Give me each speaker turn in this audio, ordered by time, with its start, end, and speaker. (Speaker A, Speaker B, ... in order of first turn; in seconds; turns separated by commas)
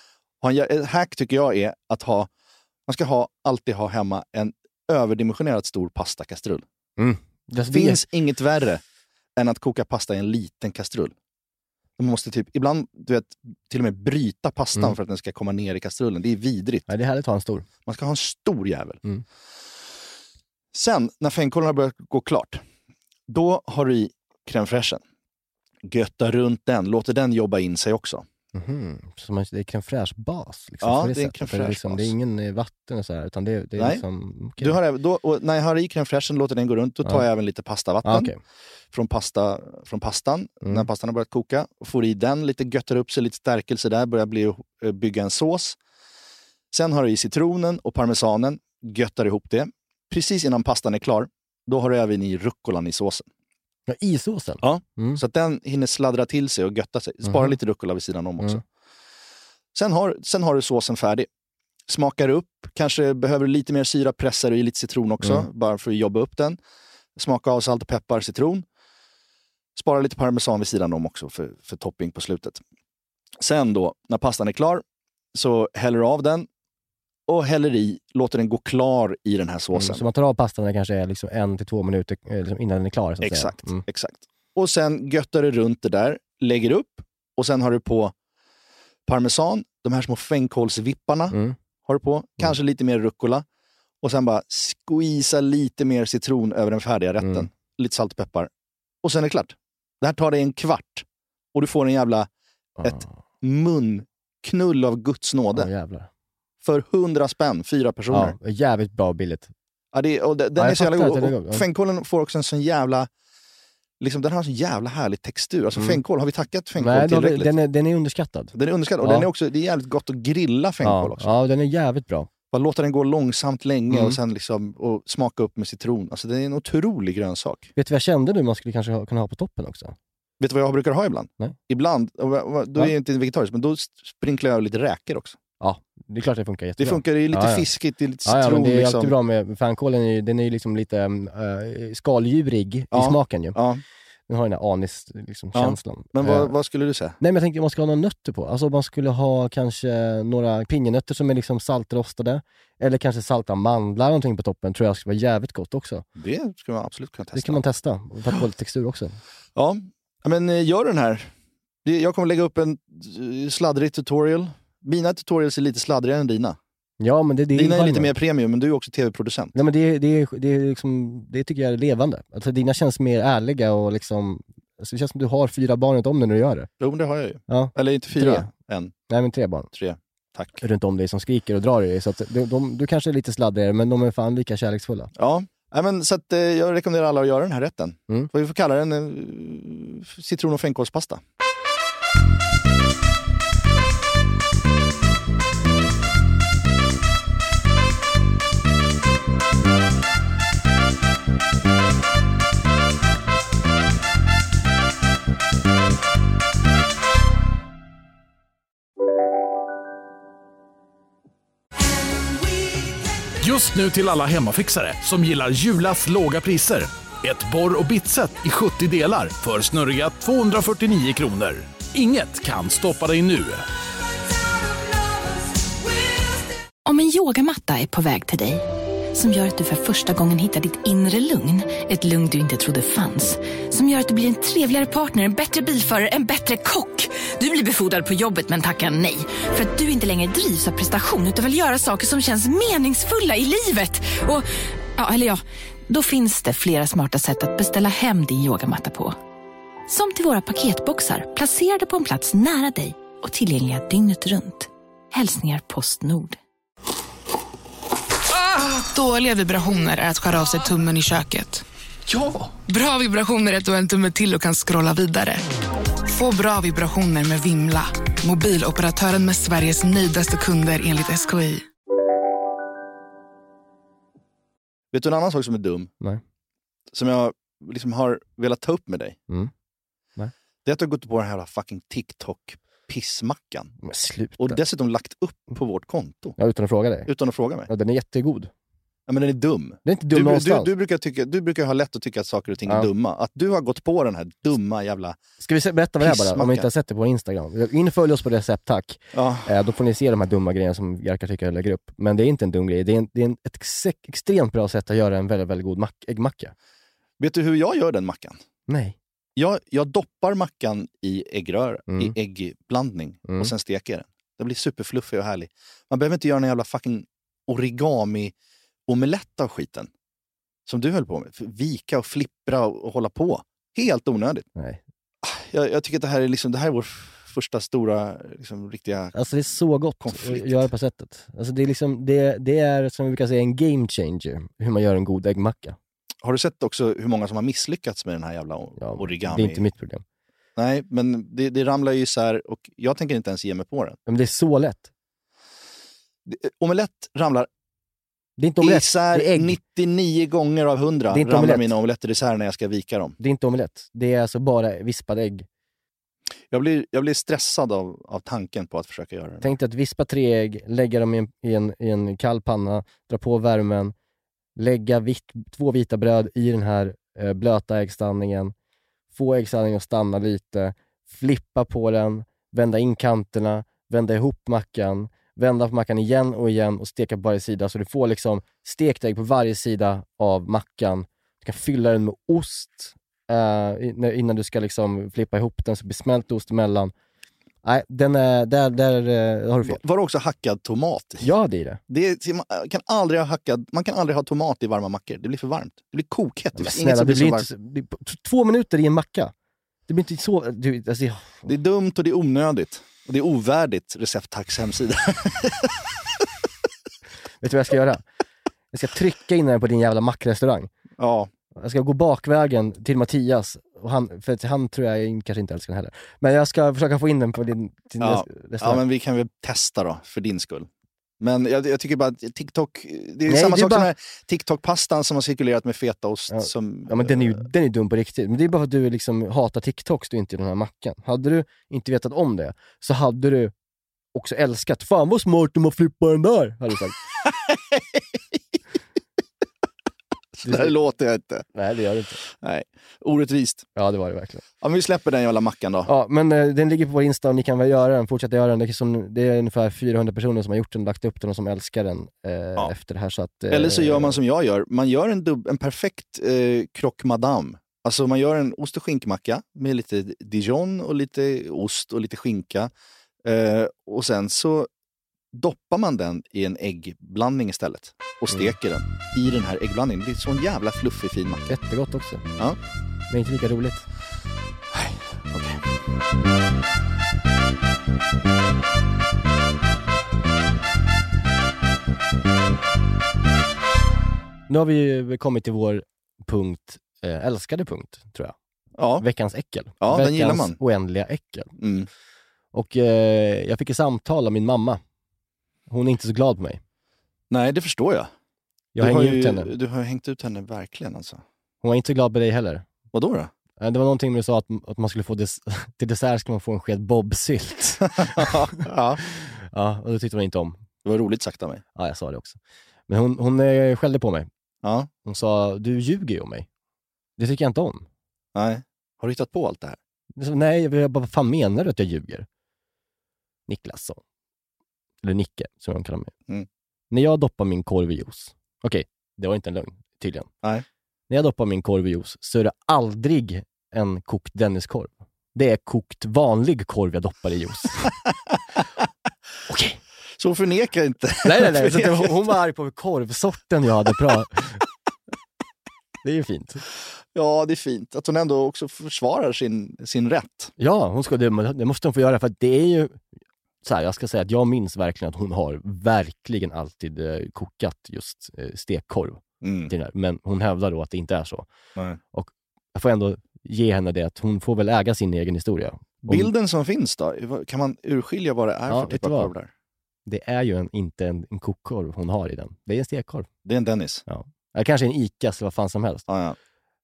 Speaker A: 0.4-2.3, Speaker A: 2.9-6.7, Speaker B: 7.0-8.0, Speaker A: 7.7-8.8, Speaker A: 9.4-11.1, Speaker A: 12.0-16.9, Speaker B: 16.9-17.7, Speaker A: 17.9-19.0, Speaker A: 20.7-22.6, Speaker A: 23.3-25.0, Speaker A: 25.9-28.2, Speaker B: 28.5-34.8, Speaker A: 30.8-32.1, Speaker A: 33.8-34.0, Speaker A: 34.6-38.3, Speaker B: 38.0-38.4, Speaker A: 38.9-45.8, Speaker A: 46.7-53.3, Speaker B: 53.9-55.2, Speaker A: 54.6-58.6, Speaker B: 57.2-57.5, Speaker A: 59.8-61.3, Speaker A: 61.9-66.6, Speaker A: 67.2-68.7, Speaker A: 69.8-72.6, Speaker A: 73.4-76.5, Speaker A: 77.3-80.0, Speaker B: 79.7-83.8, Speaker A: 83.2-88.1, Speaker A: 89.1-93.5, Speaker B: 91.3-91.6, Speaker A: 94.0-98.5, Speaker B: 97.2-97.5, Speaker A: 99.0-102.3, Speaker B: 102.8-103.1, Speaker A: 102.8-105.7, Speaker B: 105.5-106.1, Speaker A: 106.6-108.3, Speaker B: 108.1-109.5, Speaker A: 109.9-113.1, Speaker B: 110.6-111.7, Speaker A: 114.0-117.5, Speaker B: 115.8-116.0, Speaker B: 116.8-119.3, Speaker A: 118.5-121.3, Speaker B: 120.8-122.3, Speaker A: 122.5-127.7, Speaker B: 123.9-124.2, Speaker B: 127.8-130.0, Speaker A: 130.4-135.4, Speaker B: 135.6-137.7, Speaker A: 136.8-139.1, Speaker B: 138.3-143.6, Speaker A: 142.9-143.8, Speaker B: 144.3-146.5, Speaker A: 145.5-147.2, Speaker B: 147.2-156.1, Speaker A: 156.2-157.6, Speaker B: 157.3-159.2, Speaker A: 159.6-161.3, Speaker A: 161.8-166.6, Speaker B: 167.0-168.1, Speaker A: 167.5-169.6, Speaker B: 169.6-176.7, Speaker A: 176.8-178.9, Speaker B: 177.5-178.5, Speaker B: 179.1-179.7, Speaker A: 179.7-180.6, Speaker B: 180.6-185.1, Speaker A: 185.2-191.2, Speaker C: 213.4-223.6, Speaker D: 226.9-249.2, Speaker D: 249.9-256.4, Speaker E: 258.8-261.6, Speaker E: 262.7-265.5, Speaker E: 266.1-271.6, Speaker A: 274.9-275.9, Speaker A: 276.9-279.2, Speaker A: 280.6-283.7, Speaker B: 283.8-284.6, Speaker A: 284.4-286.4, Speaker B: 286.4-287.1, Speaker A: 287.1-287.7, Speaker B: 287.7-288.5, Speaker A: 289.1-295.2, Speaker B: 289.9-290.7, Speaker B: 295.4-306.5, Speaker A: 296.0-296.7, Speaker A: 299.1-299.5, Speaker A: 307.2-308.4, Speaker B: 308.7-309.0, Speaker A: 309.4-318.3, Speaker A: 318.9-319.9, Speaker A: 320.7-324.5, Speaker B: 324.6-324.8, Speaker A: 325.2-329.1, Speaker B: 329.1-335.8, Speaker A: 330.0-330.7, Speaker A: 336.2-339.6, Speaker B: 338.8-340.0, Speaker A: 340.6-344.0, Speaker B: 344.1-344.9, Speaker A: 346.3-347.5, Speaker B: 348.4-349.6, Speaker A: 348.6-353.2, Speaker B: 351.1-351.7, Speaker B: 353.2-355.5, Speaker A: 356.5-359.6, Speaker B: 359.4-363.9, Speaker B: 364.6-368.5, Speaker B: 369.1-386.9, Speaker B: 387.6-389.8, Speaker A: 389.6-391.3, Speaker B: 391.2-391.8, Speaker A: 391.9-397.5, Speaker B: 396.6-399.3, Speaker B: 399.9-401.5, Speaker A: 401.5-405.8, Speaker B: 407.4-408.0, Speaker B: 408.7-410.7, Speaker A: 411.0-411.3, Speaker B: 411.6-418.8, Speaker A: 418.0-420.7, Speaker A: 421.2-427.4, Speaker B: 423.3-423.9, Speaker B: 426.3-433.5, Speaker B: 434.1-437.0, Speaker A: 440.4-441.5, Speaker B: 440.4-440.7, Speaker B: 441.6-442.2, Speaker A: 442.4-443.7, Speaker B: 443.8-444.4, Speaker A: 444.6-445.9, Speaker B: 445.9-454.2, Speaker A: 453.5-462.7, Speaker A: 463.2-464.7, Speaker A: 465.3-471.5, Speaker B: 471.5-472.2, Speaker B: 473.1-473.9, Speaker A: 474.8-475.6, Speaker B: 484.5-488.4, Speaker A: 488.8-489.1, Speaker B: 489.0-491.5, Speaker A: 489.8-490.6, Speaker A: 491.6-491.9, Speaker B: 492.5-494.8, Speaker B: 495.7-496.6, Speaker A: 497.3-498.1, Speaker B: 498.8-499.5, Speaker A: 498.8-501.2, Speaker B: 501.6-502.7, Speaker A: 502.9-503.3, Speaker B: 503.6-508.6, Speaker A: 508.0-509.0, Speaker B: 509.1-510.6, Speaker A: 510.9-511.6, Speaker B: 511.8-514.3, Speaker A: 514.6-514.9, Speaker B: 515.1-516.5, Speaker B: 517.2-517.9, Speaker A: 518.4-519.8, Speaker B: 520.2-522.3, Speaker B: 523.5-524.0, Speaker B: 525.0-526.1, Speaker B: 526.9-530.3, Speaker B: 531.1-537.9, Speaker B: 539.5-539.8, Speaker A: 540.2-542.3, Speaker B: 541.2-544.6, Speaker B: 546.0-546.6, Speaker A: 547.1-550.5, Speaker B: 550.6-553.0, Speaker B: 553.6-561.5, Speaker A: 559.4-559.7, Speaker B: 562.1-566.3, Speaker A: 566.1-569.5, Speaker B: 568.7-569.3, Speaker B: 570.1-573.3, Speaker A: 573.5-574.0, Speaker B: 574.1-576.0, Speaker A: 576.1-576.4